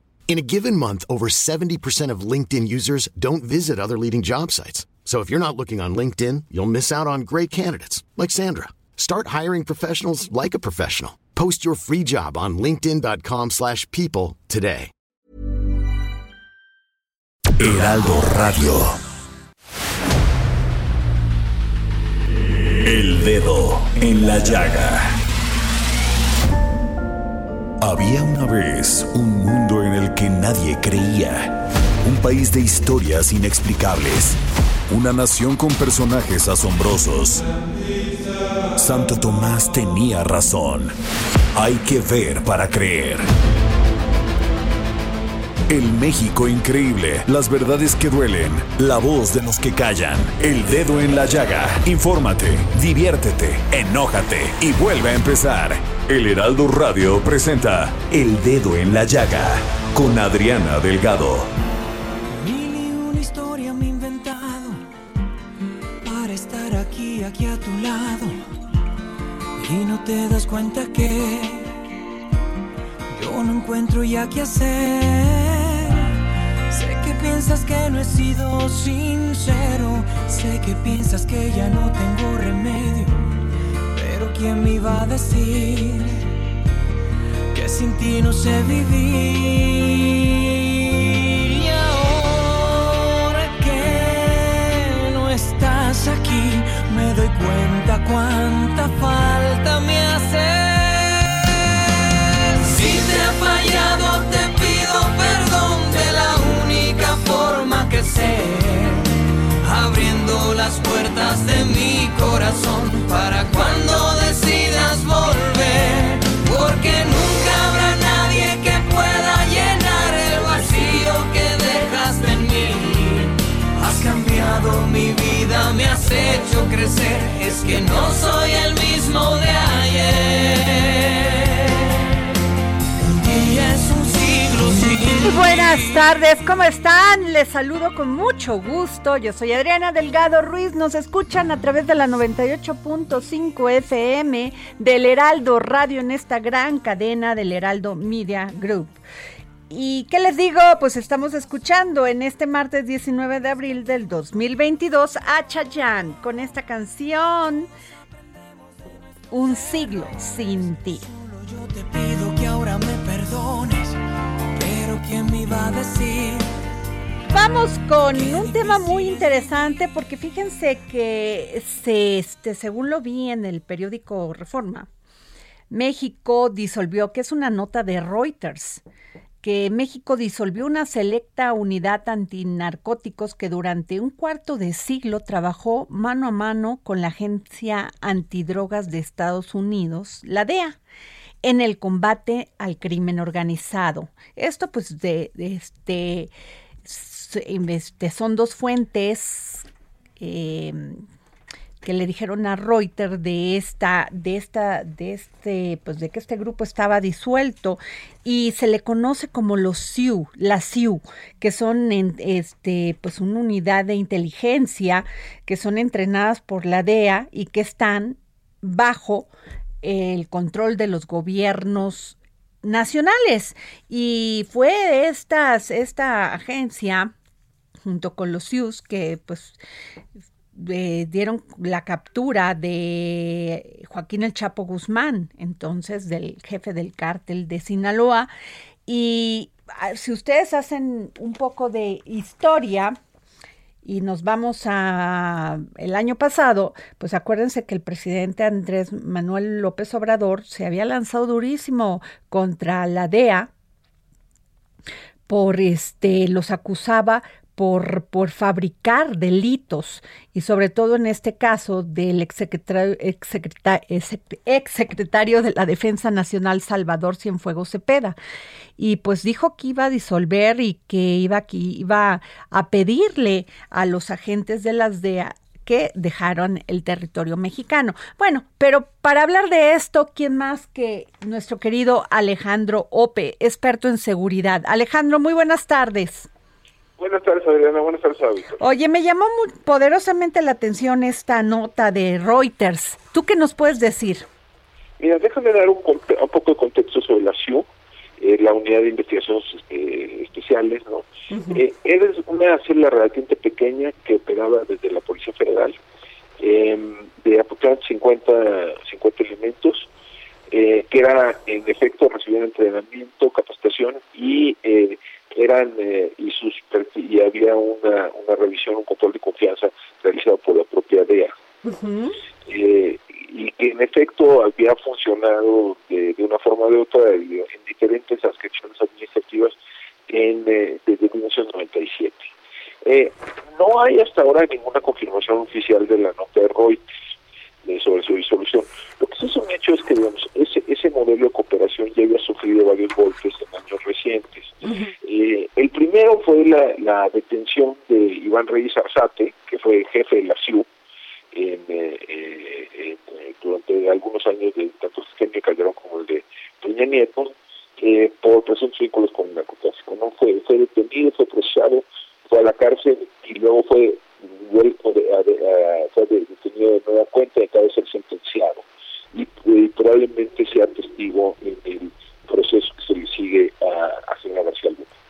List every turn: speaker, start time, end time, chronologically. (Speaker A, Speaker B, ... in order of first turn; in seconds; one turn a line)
Speaker A: 0.3-14.9
Speaker B: 17.6-19.0
Speaker B: 22.8-25.1
Speaker B: 27.8-37.5
Speaker B: 38.8-40.9
Speaker B: 41.5-43.3
Speaker B: 45.7-61.5
Speaker C: 62.3-64.8
Speaker C: 66.0-68.4
Speaker C: 69.6-71.8
Speaker C: 73.1-76.2
Speaker C: 76.7-83.4
Speaker C: 83.9-86.3
Speaker C: 87.5-132.0
Speaker C: 133.0-136.0
Speaker D: 135.2-149.0
Speaker D: 149.7-157.7
Speaker D: 159.3-161.0
Speaker C: 161.1-164.0
Speaker C: 164.5-166.5
Speaker D: 167.3-174.9
Speaker C: 168.1-169.8
Speaker D: 175.7-178.8
Speaker D: 179.4-190.8
Speaker D: 191.4-196.3
Speaker D: 196.8-199.7
Speaker D: 200.2-201.0
Speaker D: 201.8-219.3
Speaker D: 219.8-227.1
Speaker D: 227.8-229.6
Speaker D: 230.5-238.3
Speaker D: 238.9-242.9
Speaker D: 243.8-253.5
Speaker D: 255.3-268.2
Speaker D: 268.8-286.3
Speaker E: 287.0-288.5
Speaker D: 288.6-294.3
Speaker E: 295.0-297.7
Speaker E: 298.2-305.8
Speaker D: 301.3-301.6
Speaker E: 306.4-309.9
Speaker E: 310.5-321.3
Speaker D: 321.6-322.1
Speaker E: 322.4-329.6
Speaker E: 330.1-332.3
Speaker E: 332.8-336.8
Speaker E: 337.6-350.7
Speaker D: 344.6-344.9
Speaker E: 351.3-374.9